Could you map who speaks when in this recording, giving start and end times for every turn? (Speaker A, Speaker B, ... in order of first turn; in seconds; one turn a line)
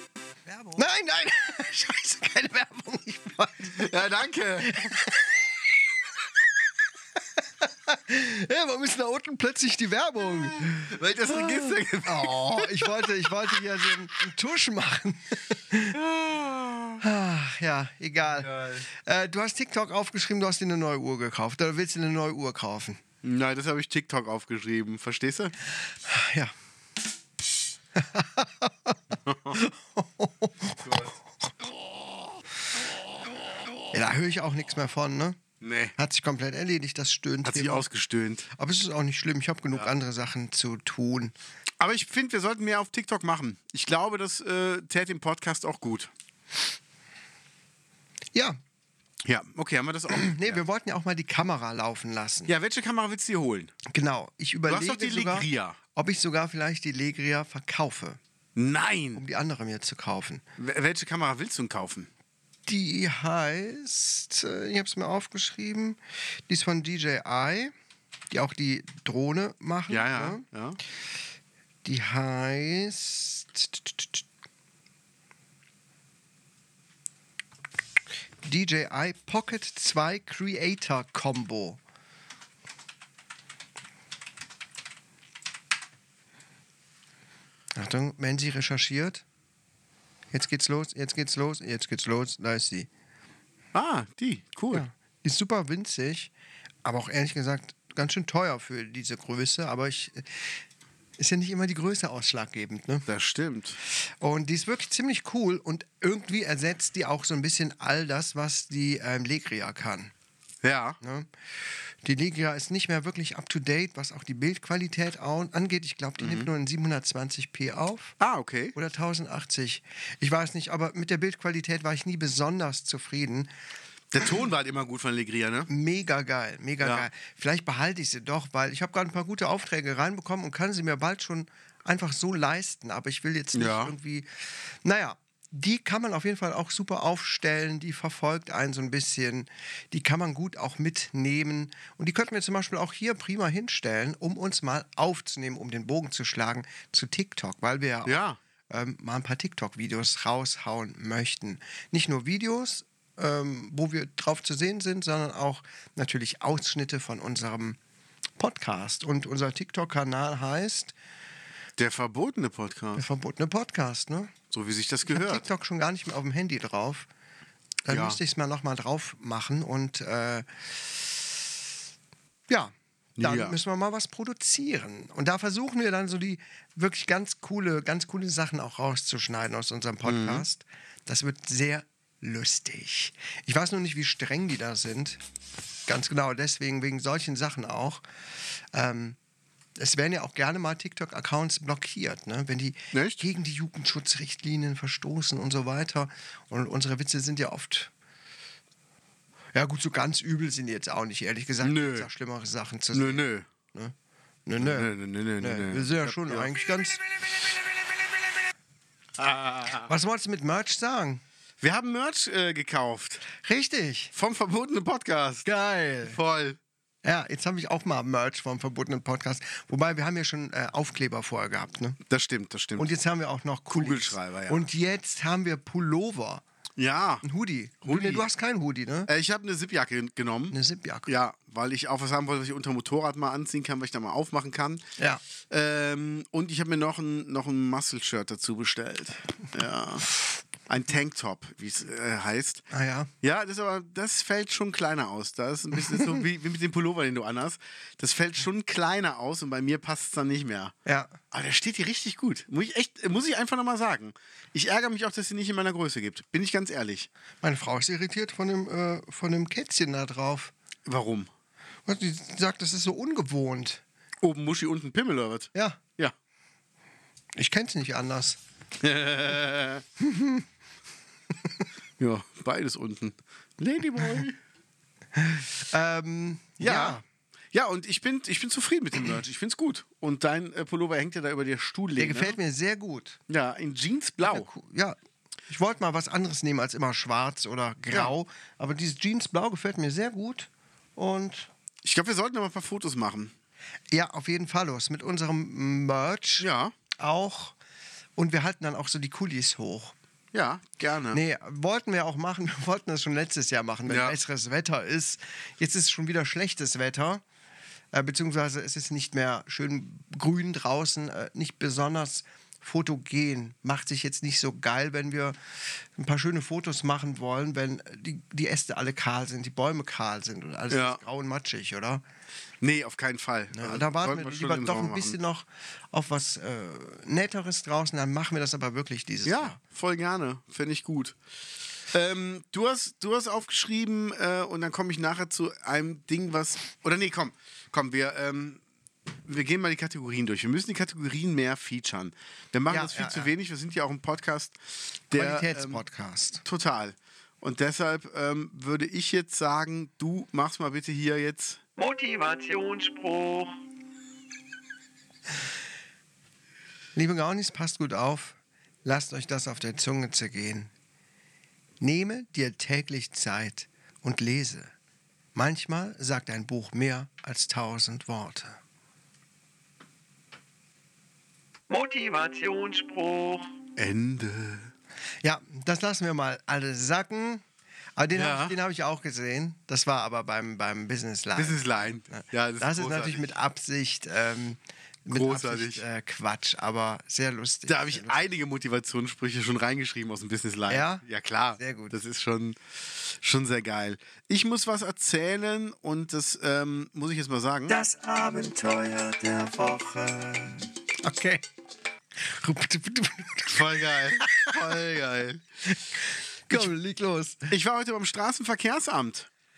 Speaker A: 0.5-4.0
Speaker B: 3.7-4.9
Speaker A: 4.6-5.3
Speaker A: 7.6-10.9
Speaker B: 10.7-13.1
Speaker A: 12.0-16.0
Speaker B: 15.9-17.0
Speaker A: 17.0-23.0
Speaker B: 18.2-18.9
Speaker B: 23.2-25.5
Speaker A: 26.0-26.5
Speaker A: 27.9-29.0
Speaker B: 29.3-29.6
Speaker A: 29.5-31.0
Speaker B: 30.8-31.1
Speaker A: 33.9-35.4
Speaker B: 35.6-35.9
Speaker A: 36.0-37.9
Speaker B: 37.4-38.5
Speaker A: 38.5-41.3
Speaker B: 41.8-46.1
Speaker A: 48.3-48.6
Speaker B: 49.2-50.6
Speaker A: 50.1-52.5
Speaker B: 52.5-53.7
Speaker A: 53.9-58.2
Speaker B: 54.7-55.8
Speaker B: 58.5-59.2
Speaker A: 59.1-60.4
Speaker B: 60.6-62.1
Speaker A: 62.7-67.7
Speaker A: 68.3-70.4
Speaker B: 69.9-70.8
Speaker A: 71.8-74.2
Speaker A: 78.4-81.8
Speaker A: 87.7-89.2
Speaker A: 90.3-92.9
Speaker B: 93.7-94.8
Speaker A: 94.7-96.3
Speaker A: 96.8-100.6
Speaker A: 101.2-103.1
Speaker B: 103.1-103.8
Speaker A: 104.2-110.1
Speaker B: 110.6-111.0
Speaker A: 111.0-111.3
Speaker A: 112.0-118.1
Speaker B: 116.2-116.5
Speaker B: 118.2-118.7
Speaker A: 118.7-123.5
Speaker B: 124.1-125.7
Speaker A: 125.7-157.8
Speaker B: 126.8-127.1
Speaker B: 133.5-133.9
Speaker B: 148.1-148.4
Speaker A: 158.4-160.9
Speaker B: 161.8-163.0
Speaker A: 162.9-164.3
Speaker B: 164.5-165.4
Speaker A: 165.1-167.1
Speaker A: 167.9-171.1
Speaker B: 167.9-168.2
Speaker A: 172.5-185.2
Speaker B: 173.2-173.6
Speaker B: 180.0-180.4
Speaker A: 185.9-188.0
Speaker A: 188.7-189.2
Speaker A: 189.8-197.9
Speaker B: 192.9-193.2
Speaker A: 199.5-203.9
Speaker B: 201.6-202.1
Speaker B: 202.9-203.5
Speaker A: 204.4-207.1
Speaker B: 204.6-206.5
Speaker B: 209.2-209.9
Speaker A: 209.9-211.2
Speaker B: 211.6-213.2
Speaker A: 213.3-214.1
Speaker B: 214.1-215.5
Speaker A: 215.4-216.2
Speaker B: 216.0-216.6
Speaker A: 217.0-222.0
Speaker B: 222.1-222.9
Speaker A: 222.8-226.4
Speaker B: 223.7-224.7
Speaker B: 226.8-227.2
Speaker A: 227.2-229.1
Speaker B: 227.8-228.2
Speaker B: 229.1-234.8
Speaker A: 230.5-231.1
Speaker A: 235.0-235.2
Speaker B: 235.5-240.1
Speaker B: 240.7-242.7
Speaker A: 242.7-243.1
Speaker B: 243.2-250.7
Speaker A: 250.9-251.2
Speaker B: 251.3-257.1
Speaker A: 257.4-260.5
Speaker B: 260.9-261.3
Speaker A: 261.9-263.8
Speaker B: 264.2-266.1
Speaker A: 265.5-265.8
Speaker A: 267.4-268.4
Speaker B: 268.8-269.8
Speaker A: 270.0-270.4
Speaker B: 272.0-274.4
Speaker A: 275.2-277.0
Speaker B: 276.6-277.0
Speaker B: 277.5-282.4
Speaker A: 282.0-283.2
Speaker B: 283.3-284.5
Speaker A: 284.2-285.0
Speaker A: 285.5-291.5
Speaker B: 291.8-293.3
Speaker A: 293.9-296.4
Speaker B: 296.4-296.7
Speaker A: 297.0-297.6
Speaker A: 298.2-299.9
Speaker B: 300.3-301.2
Speaker A: 301.1-307.2
Speaker B: 303.9-304.1
Speaker A: 307.9-315.4
Speaker A: 315.9-322.0
Speaker B: 320.7-321.0
Speaker B: 322.6-325.2
Speaker A: 323.5-329.6
Speaker B: 329.2-331.2
Speaker B: 331.9-338.6
Speaker B: 339.2-345.8
Speaker A: 342.7-343.3
Speaker A: 345.1-346.4
Speaker B: 346.4-351.6
Speaker C: 351.8-353.5
Speaker A: 356.9-360.7
Speaker A: 361.8-364.7
Speaker A: 365.4-368.6
Speaker C: 371.7-373.5
Speaker B: 373.8-374.7
Speaker A: 375.2-377.4
Speaker A: 377.9-388.2
Speaker B: 378.1-378.6
Speaker B: 381.4-383.3
Speaker B: 385.1-385.9
Speaker B: 387.7-397.8
Speaker A: 390.7-391.0
Speaker A: 391.6-391.9
Speaker A: 397.7-401.4
Speaker A: 402.2-404.7
Speaker B: 403.5-405.4
Speaker A: 406.5-407.5
Speaker B: 407.5-409.3